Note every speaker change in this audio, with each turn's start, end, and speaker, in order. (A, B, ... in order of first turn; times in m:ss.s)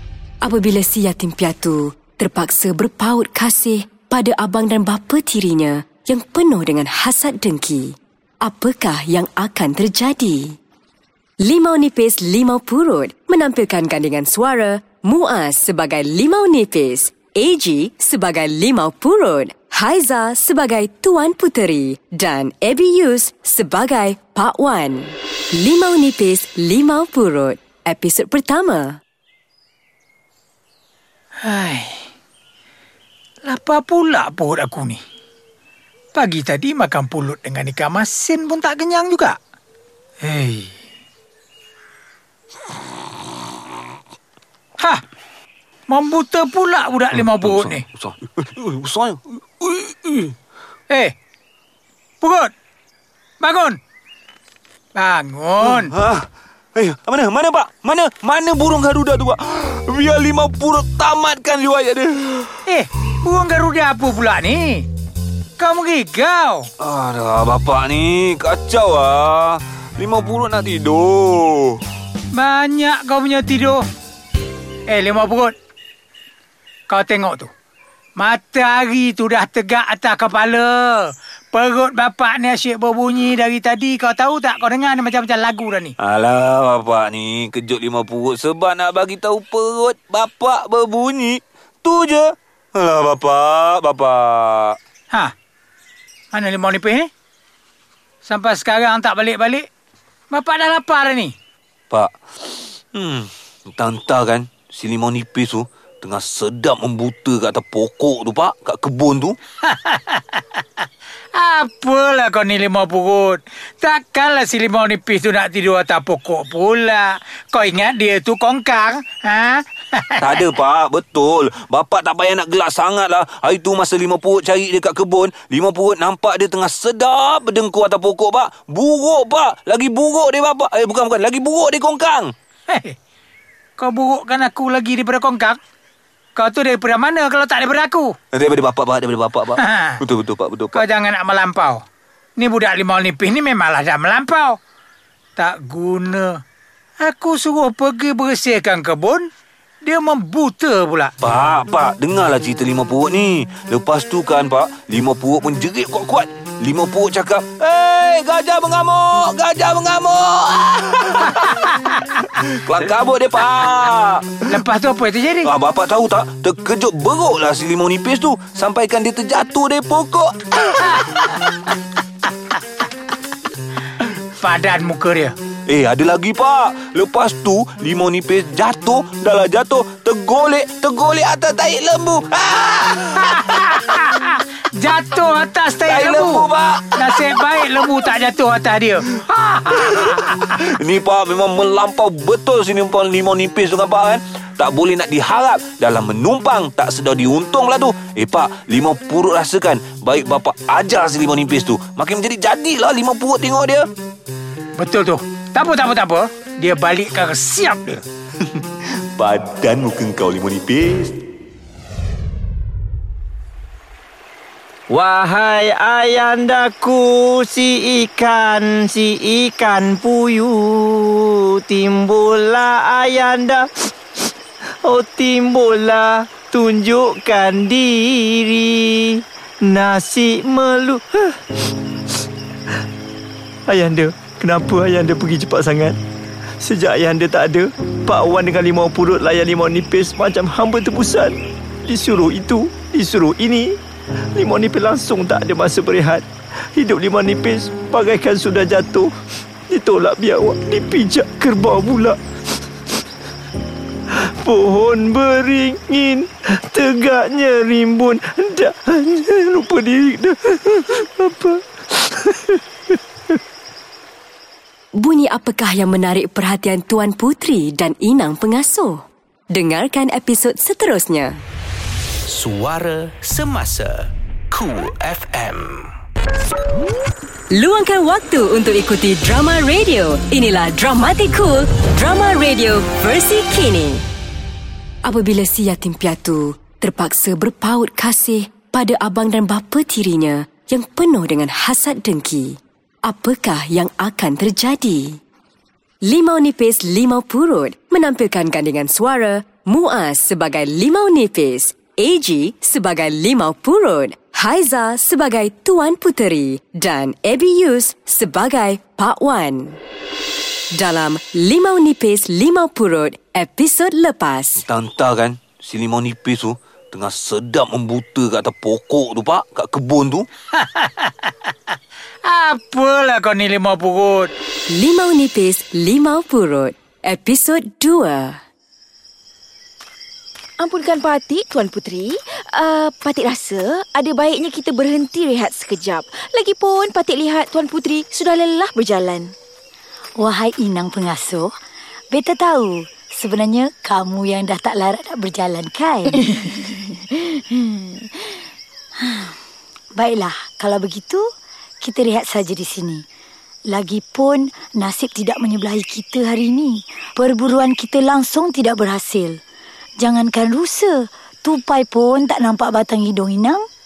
0:00.4-0:10.6 A
0:11.4-0:29.0 A
0:31.4-0:32.0 B
0:33.4-0:35.0 B
0:36.1-0:39.4 B
0:40.2-0:40.7 B
0:45.9-0:47.8 B
0:47.1-0:50.1 C
0:50.9-0:51.1 B
0:52.2-0:52.5 B
0:53.4-0:53.8 B
0:54.9-0:55.9 B
0:55.6-1:02.6 C
1:02.7-1:04.8 B
1:05.6-1:06.7 B
1:06.8-1:11.8 C
1:12.3-1:13.8 B
1:14.9-1:15.5 B
1:16.9-1:17.5 B
1:18.2-1:25.9 B
1:26.0-1:34.8 C
1:36.3-1:37.1 B
1:38.2-1:39.7 B
1:40.3-1:41.3 B
1:41.9-1:49.4 C
1:49.6-1:50.6 B
1:51.3-2:00.4 B
2:00.2-2:12.3 C
2:12.7-2:13.0 B
2:13.8-2:15.6 B
2:16.4-2:18.1 B
2:18.3-2:20.8 C
2:19.6-2:20.0 B
2:20.7-2:21.8 B
2:22.4-2:24.6 B
2:25.4-2:26.4 B
2:27.0-2:29.3 B
2:29.8-2:31.1 B
2:31.2-2:41.6 C
2:42.4-2:44.6 C
2:44.5-2:45.5 B
2:45.4-2:51.3 C
2:54.4-2:55.3 B
2:55.7-3:03.6 C
3:03.2-3:10.3 B
3:05.9-3:07.3 C
3:09.6-3:23.9 C
3:24.8-3:28.0 B
3:29.2-3:31.2 C
3:34.9-3:44.2 D
3:44.8-3:51.7 D
3:53.7-3:56.0 D
3:56.6-4:03.8 D
4:04.3-4:09.1 D
4:09.7-4:12.2 D
4:14.1-4:23.4 D
4:24.9-4:31.4 A
4:37.5-4:44.0 A
4:45.0-4:55.2 A
4:56.0-5:09.8 A
5:10.7-5:14.6 A
5:14.6-5:20.3 C
5:20.5-5:21.5 B
5:22.2-5:24.3 B
5:24.7-5:28.4 A
5:30.6-5:39.3 E
5:40.2-5:41.5 F
5:42.1-5:46.5 F
5:46.3-5:48.4 E
5:49.0-5:49.3 F
5:49.9-5:51.3 F
5:51.8-5:53.0 F
5:53.7-5:59.4 F
6:00.0-6:03.6 F